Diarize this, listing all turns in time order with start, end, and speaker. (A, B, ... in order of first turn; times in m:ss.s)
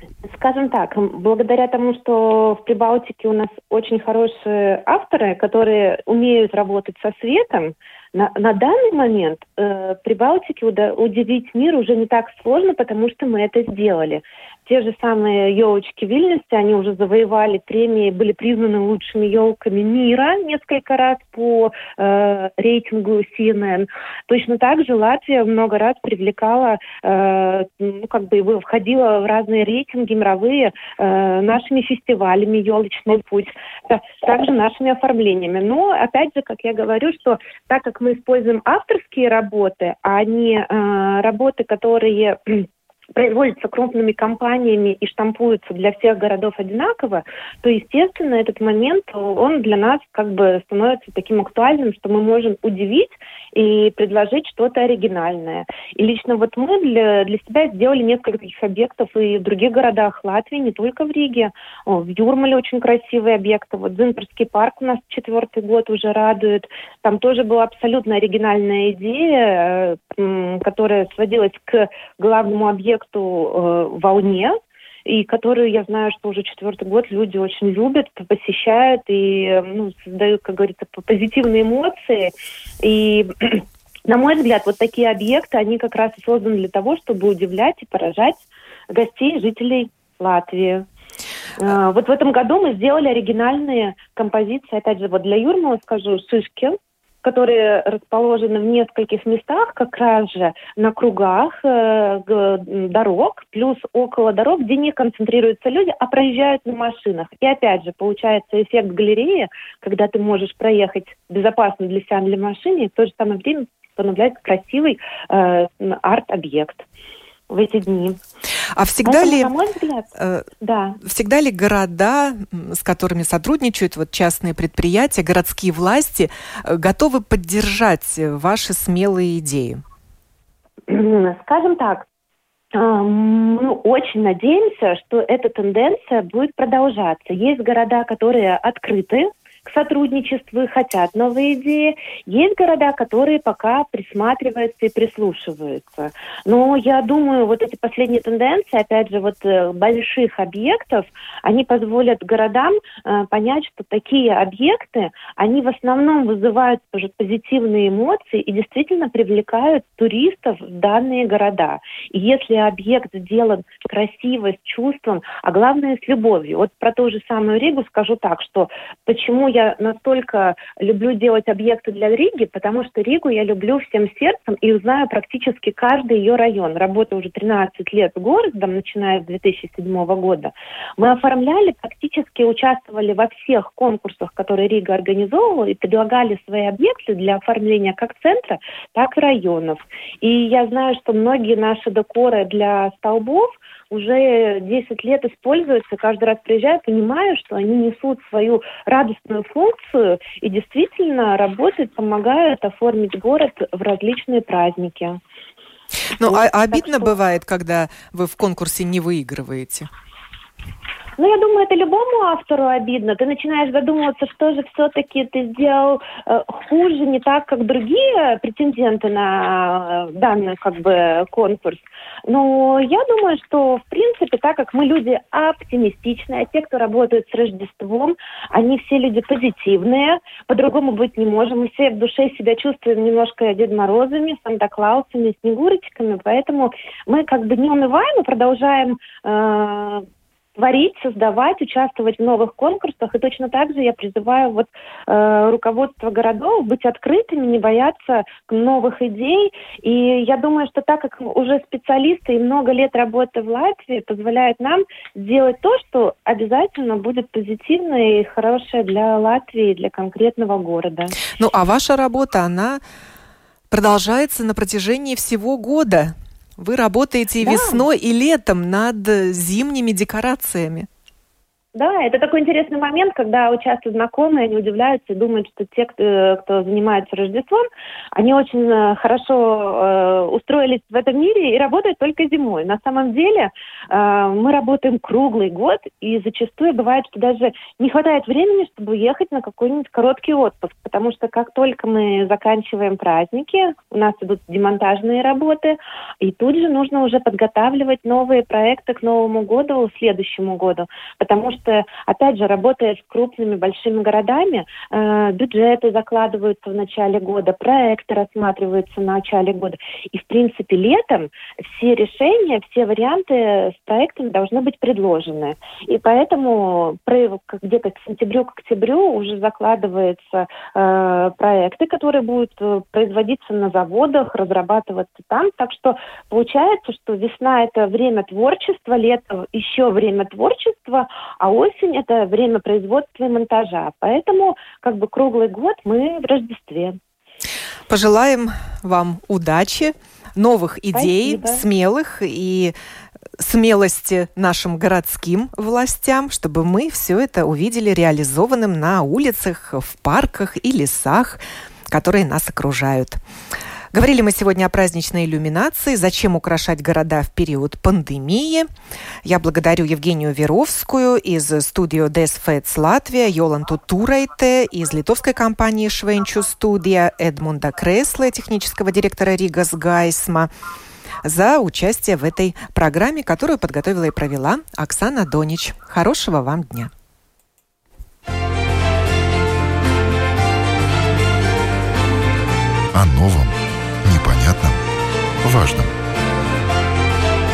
0:00.2-1:30.9 A
1:31.6-1:56.8 A
1:57.5-1:58.2 A
1:58.8-1:59.5 B
1:59.0-2:00.1 A
2:00.2-2:00.5 B
2:00.6-2:01.0 A
2:01.0-2:09.8 B
2:10.9-2:12.1 A
2:12.7-3:25.2 A
3:26.2-3:29.9 B
3:26.2-3:27.1 A
3:31.2-4:00.0 A
4:00.6-4:21.2 A
4:21.3-4:22.8 B
4:23.7-4:30.9 B
4:27.4-4:27.8 A
4:31.8-5:37.0 A
5:37.9-5:42.7 B
5:40.9-5:41.6 A
5:43.4-5:53.2 B
5:53.9-5:58.7 B
5:59.2-6:10.5 B
6:11.2-6:16.9 B
6:22.9-6:24.8 C
6:25.4-6:25.9 C